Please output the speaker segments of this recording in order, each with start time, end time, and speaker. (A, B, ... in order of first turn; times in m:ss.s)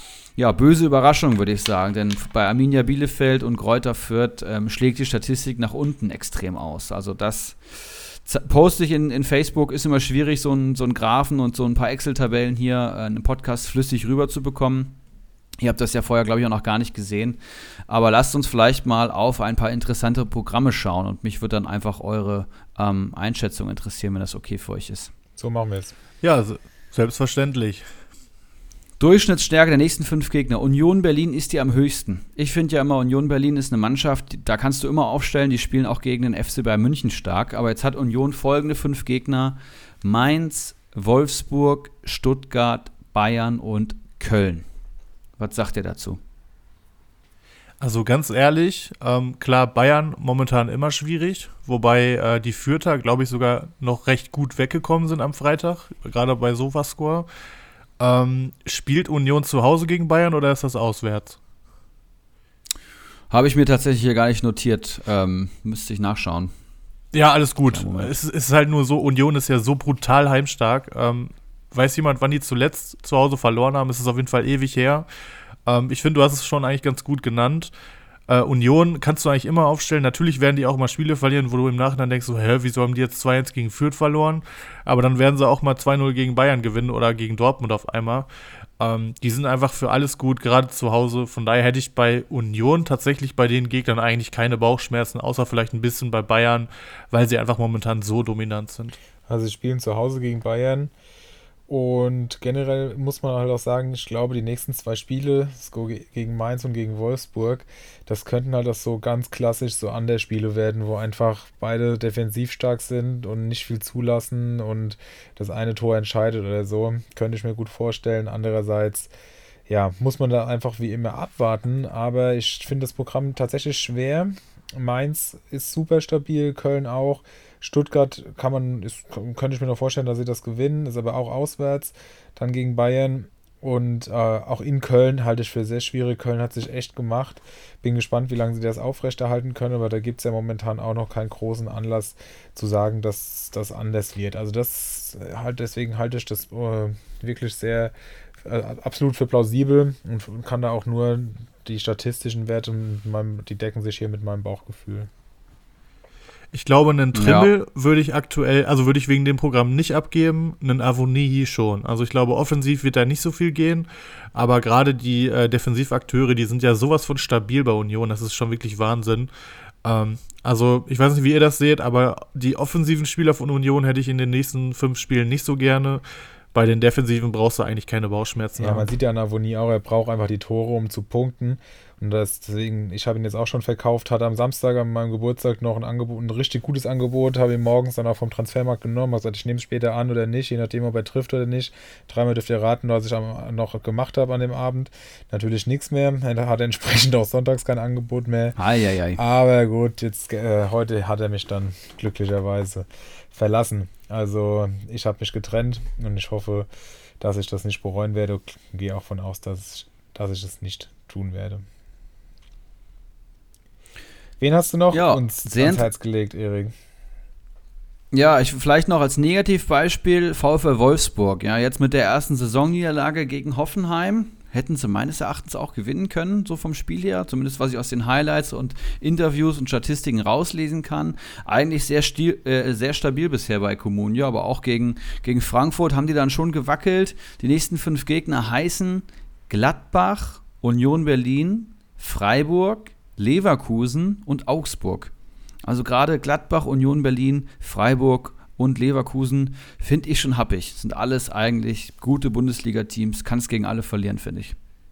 0:00.4-0:15.0 A
0:15.6-0:25.1 A
0:25.4-0:25.9 B
0:26.2-0:27.8 C
0:29.0-0:44.6 A
0:45.4-0:46.2 A
0:47.8-0:57.3 C
0:58.0-1:01.4 C
1:03.3-1:06.5 A
1:07.1-1:15.1 C
1:07.7-1:08.1 A
1:15.6-1:17.7 C
1:18.3-1:28.3 C
1:28.8-1:39.0 C
1:39.3-1:40.9 B
1:41.7-1:59.1 B
1:59.7-2:35.1 B
2:36.5-2:49.3 C
2:37.1-2:37.5 A
2:49.8-2:56.0 C
2:56.5-2:58.9 C
2:58.6-3:18.6 B
3:18.6-3:19.2 A
3:19.2-3:26.7 B
3:27.2-3:31.7 B
3:34.4-3:36.7 B
3:34.9-3:35.9 A
3:38.1-4:05.1 A
4:05.6-4:14.5 A